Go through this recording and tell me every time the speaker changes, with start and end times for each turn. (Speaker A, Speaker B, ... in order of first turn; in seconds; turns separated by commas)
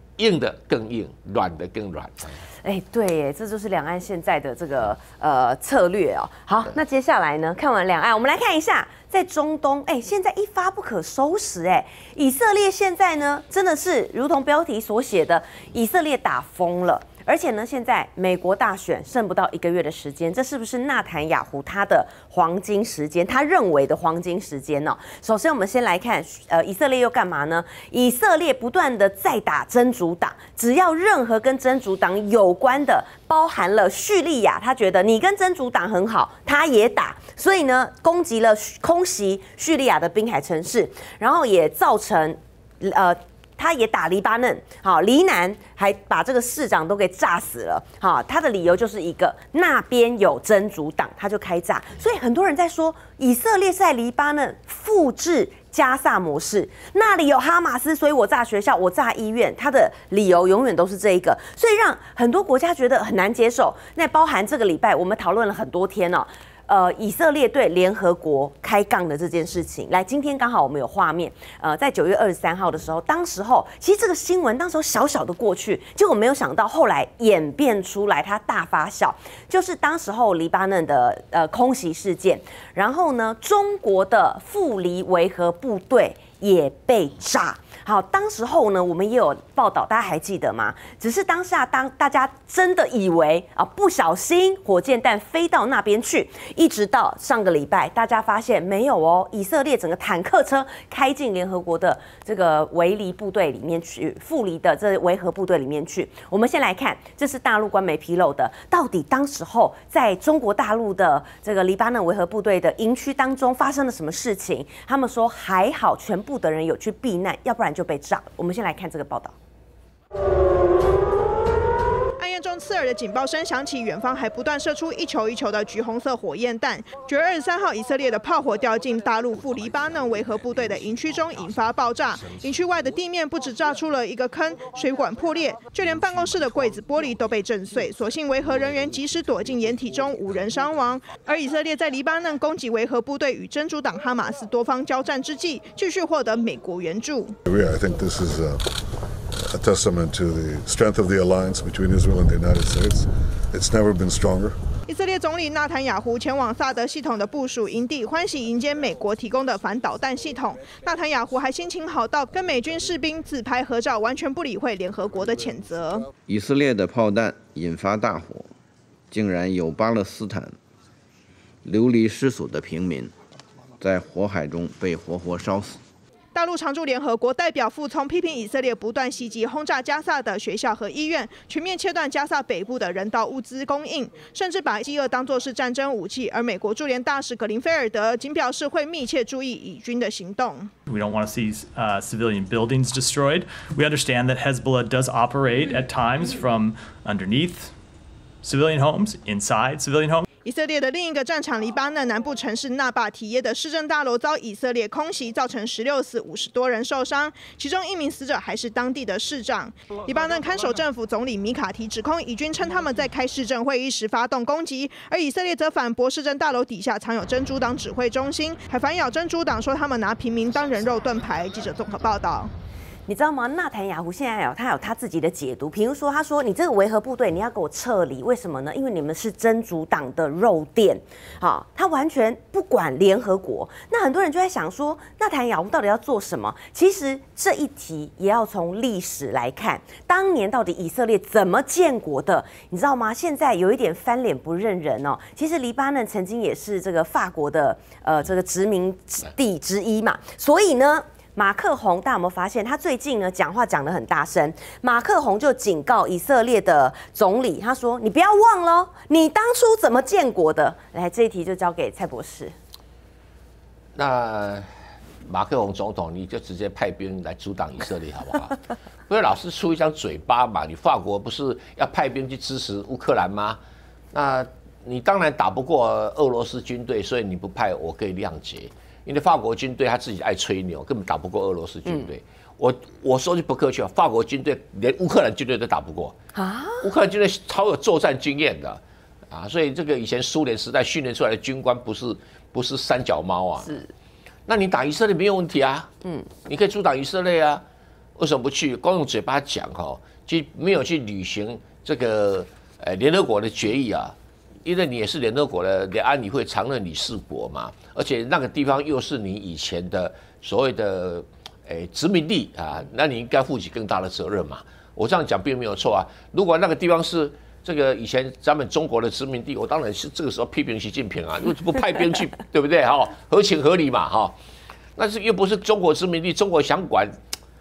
Speaker A: 0.2-2.4, Speaker B: 2.6-119.3, Speaker C: 122.2-147.3, Speaker D: 147.4-148.6, Speaker D: 149.4-154.6, Speaker C: 154.9-166.1, Speaker E: 166.3-168.5, Speaker E: 169.1-170.6, Speaker E: 171.7-173.1, Speaker E: 173.8-175.8, Speaker C: 176.3-190.7, Speaker F: 190.9-197.7, Speaker F: 198.4-200.3, Speaker C: 200.4-222.5, Speaker B: 223.1-262.5, Speaker A: 264.0-264.7, Speaker A: 265.3-268.6, Speaker A: 269.1-273.6, Speaker A: 274.1-286.1, Speaker B: 286.4-286.9, Speaker A: 286.8-288.8, Speaker A: 289.3-293.8, Speaker A: 294.5-295.9, Speaker A: 296.4-297.6, Speaker A: 298.2-324.4, Speaker A: 325.0-327.2